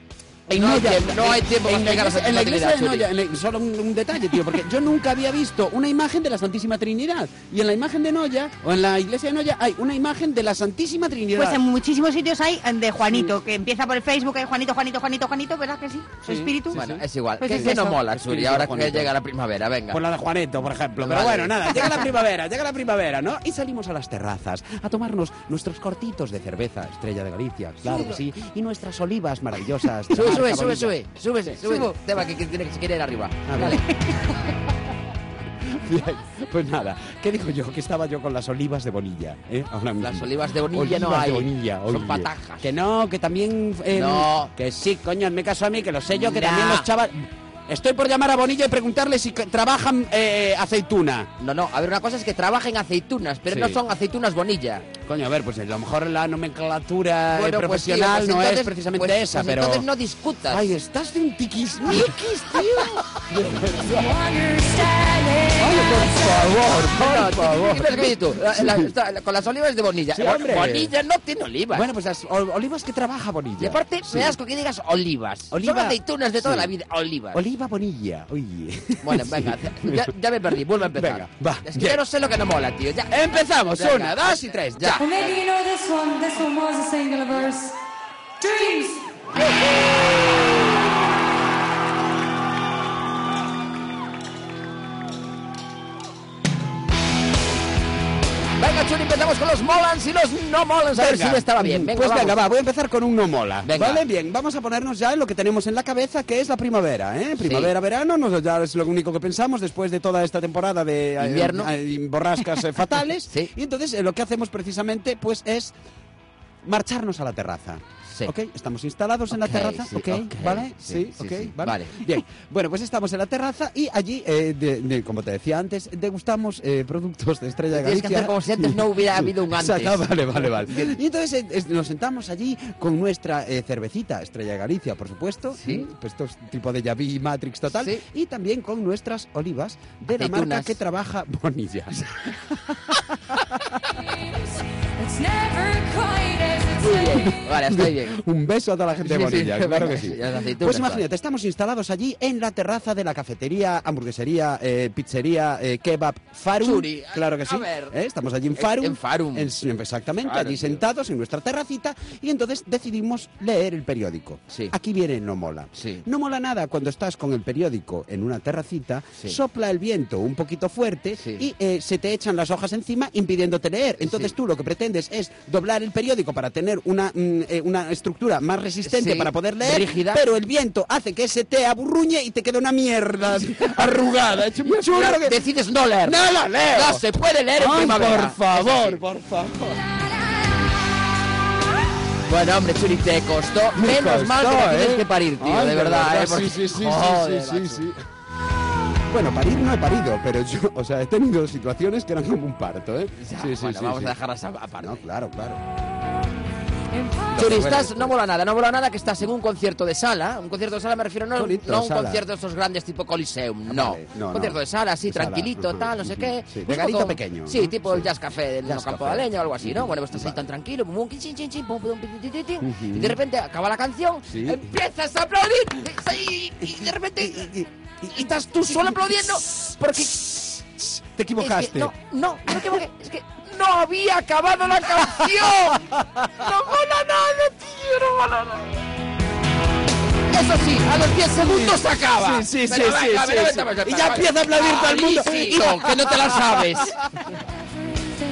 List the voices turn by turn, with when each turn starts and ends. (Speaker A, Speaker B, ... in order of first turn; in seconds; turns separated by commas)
Speaker A: 0.5-11.6, Speaker B: 0.6-3.1, Speaker C: 11.3-16.8, Speaker A: 16.2-19.1, Speaker B: 16.7-20.0, Speaker C: 17.4-18.0, Speaker A: 19.9-31.9, Speaker B: 21.0-22.0, Speaker B: 27.8-28.2, Speaker B: 30.1-33.9, Speaker A: 33.5-33.9, Speaker A: 35.6-51.3, Speaker B: 40.0-42.7, Speaker B: 43.9-44.5, Speaker B: 46.1-46.9, Speaker B: 51.4-54.9, Speaker A: 53.5-53.8, Speaker A: 55.0-59.9, Speaker B: 57.3-60.6, Speaker A: 60.5-64.2, Speaker B: 61.9-62.6, Speaker D: 64.0-66.0, Speaker A: 65.6-68.9, Speaker B: 67.0-71.9, Speaker A: 70.1-70.9, Speaker A: 71.7-74.4, Speaker B: 73.6-77.4, Speaker A: 75.5-76.7, Speaker A: 77.3-80.1, Speaker B: 79.0-85.4, Speaker A: 80.7-82.0, Speaker A: 83.1-85.1, Speaker D: 85.0-87.7, Speaker D: 88.4-89.1, Speaker B: 98.6-102.4, Speaker A: 100.9-115.7, Speaker B: 103.6-104.0, Speaker B: 107.4-107.7, Speaker B: 111.2-111.7, Speaker B: 113.3-113.5, Speaker A: 116.6-142.9, Speaker B: 118.1-118.3, Speaker B: 119.3-122.0, Speaker B: 127.7-131.0, Speaker B: 135.6-135.9, Speaker B: 137.7-138.0, Speaker B: 140.1-140.8, Speaker D: 144.0-147.3, Speaker B: 146.8-148.2, Speaker A: 147.3-185.4, Speaker B: 149.0-151.1, Speaker B: 156.6-158.0, Speaker B: 158.5-159.5, Speaker B: 160.2-160.8, Speaker B: 165.8-166.0, Speaker B: 171.2-171.5, Speaker B: 174.0-174.3, Speaker B: 178.8-180.2, Speaker B: 184.7-189.0, Speaker A: 186.0-189.8, Speaker B: 192.3-197.9, Speaker A: 193.8-198.0, Speaker A: 199.1-204.1, Speaker B: 203.2-205.0, Speaker A: 204.8-205.6, Speaker A: 207.3-208.2, Speaker B: 207.3-227.5, Speaker A: 211.3-212.2, Speaker A: 213.7-218.1, Speaker A: 218.7-220.4, Speaker A: 222.6-223.2, Speaker A: 224.3-224.7, Speaker A: 226.6-231.9, Speaker B: 228.1-230.5, Speaker B: 231.4-235.8, Speaker A: 232.5-232.8, Speaker A: 235.0-236.6, Speaker B: 236.4-238.6, Speaker A: 237.9-238.5, Speaker B: 240.3-246.9, Speaker A: 241.3-247.1